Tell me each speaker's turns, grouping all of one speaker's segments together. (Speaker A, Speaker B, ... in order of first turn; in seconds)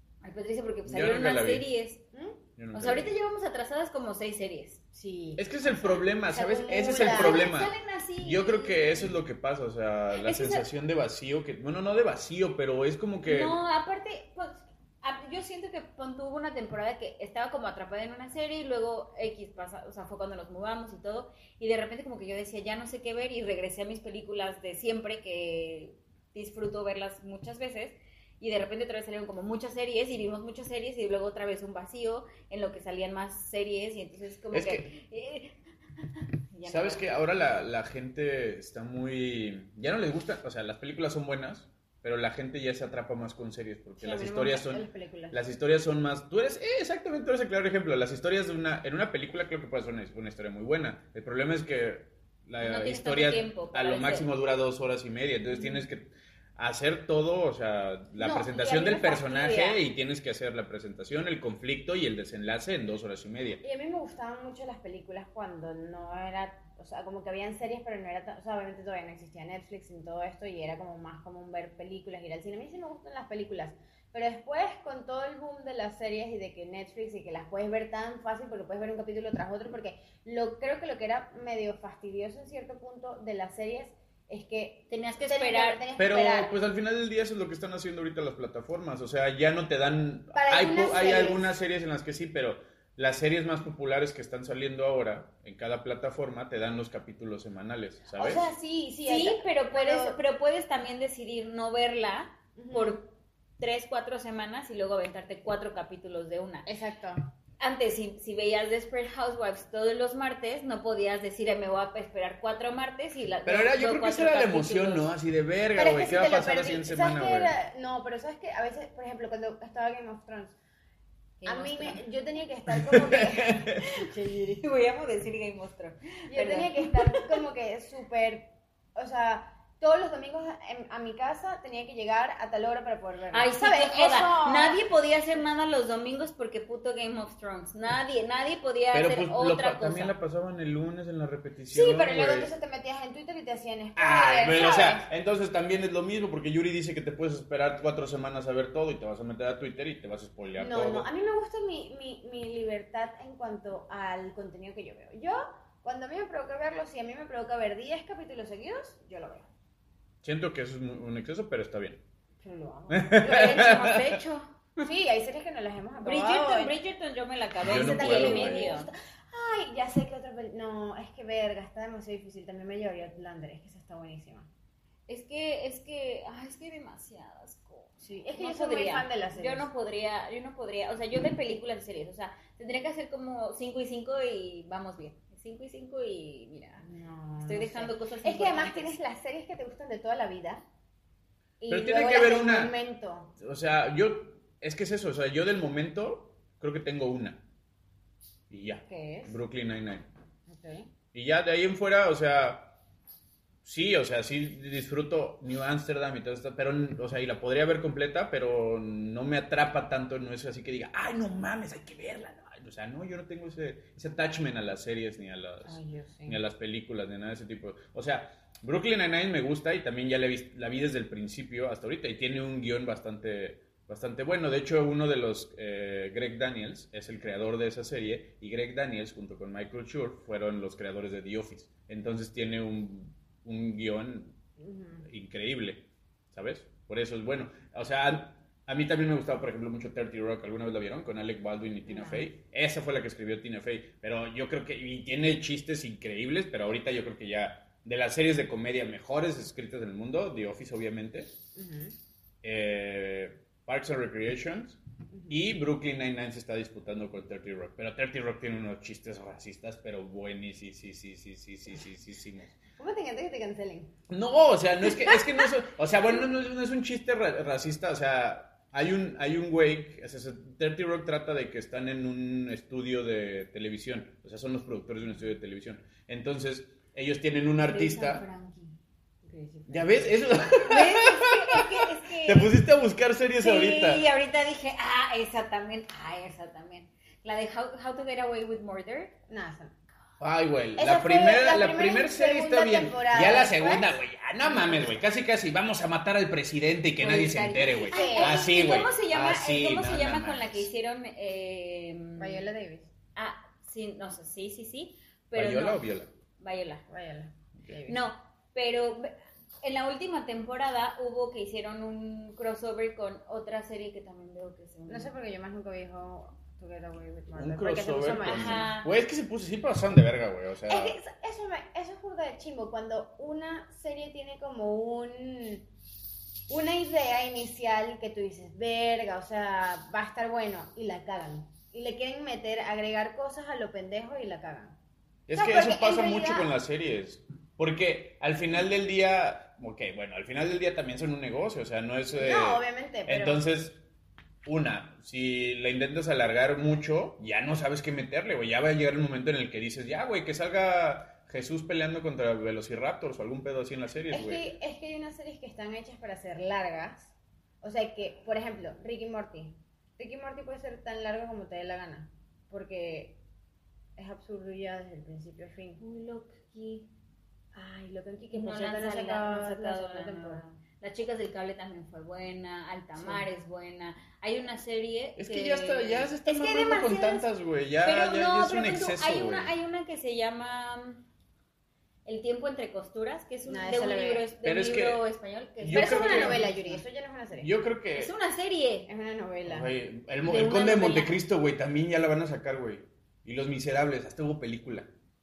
Speaker A: 0.2-2.0, 2.7-4.8, 6.9-9.1, 10.2-10.7, 13.2-35.5, 36.1-37.2, 52.6-54.3, 84.9-85.9, 99.0-106.7, 107.6-115.1, 121.4-122.0, 123.8-127.4, 133.3-140.1, 163.2-164.9, 166.0-168.9, 175.1-186.8, 187.4-188.9, 277.6-278.7, 280.6-282.5, 283.4-289.1, 297.3-302.4, 303.1-305.9, 306.4-306.8, 307.9-315.1, 318.2-318.9, 365.8-366.9, 368.3-377.3, 377.8-381.0, 382.0-386.8, 387.9-388.9, 390.2-391.2
Speaker B: 0.9-1.7, 2.6-3.1, 5.4-13.6, 34.5-34.9, 36.6-63.6, 86.0-98.5, 113.5-117.5, 122.7-123.8, 138.9-142.5, 143.9-151.1, 160.2-162.0, 162.9-164.2, 167.6-168.8, 191.7-192.7, 193.4-197.4, 198.5-200.1, 201.1-202.7, 203.6-234.3, 235.1-251.4, 252.4-262.5, 264.1-278.2, 279.7-284.1, 290.2-300.7, 305.3-306.1, 317.3-321.0, 335.3-343.8, 344.4-354.4, 375.2-379.5, 384.4-385.0, 385.6-386.4, 387.3-388.1, 389.4-394.9
Speaker C: 2.1-2.4, 4.9-7.5, 44.0-45.4, 55.5-55.8, 58.2-59.8, 63.6-86.5, 90.3-91.5, 98.1-100.2, 102.6-103.0, 106.7-107.2, 115.7-120.5, 121.4-124.6, 126.3-134.8, 141.7-145.1, 150.6-159.5, 162.4-163.9, 164.8-166.7, 167.6-174.5, 178.0-179.7, 186.8-190.6, 191.6-193.3, 198.9-199.3, 200.5-200.9, 215.6-216.4, 234.6-235.1, 241.8-242.3, 251.6-251.9, 255.1-255.4, 262.8-263.9, 279.2-280.3, 289.3-289.7, 290.8-295.0, 297.0-298.4, 302.2-302.9, 306.9-308.0, 314.9-318.7, 320.7-325.6, 326.5-334.8, 335.3-336.5, 342.1-343.4, 354.1-363.2, 364.0-365.8, 367.5-370.4, 373.0-373.3, 383.4-384.3, 385.7-387.5, 388.9-389.7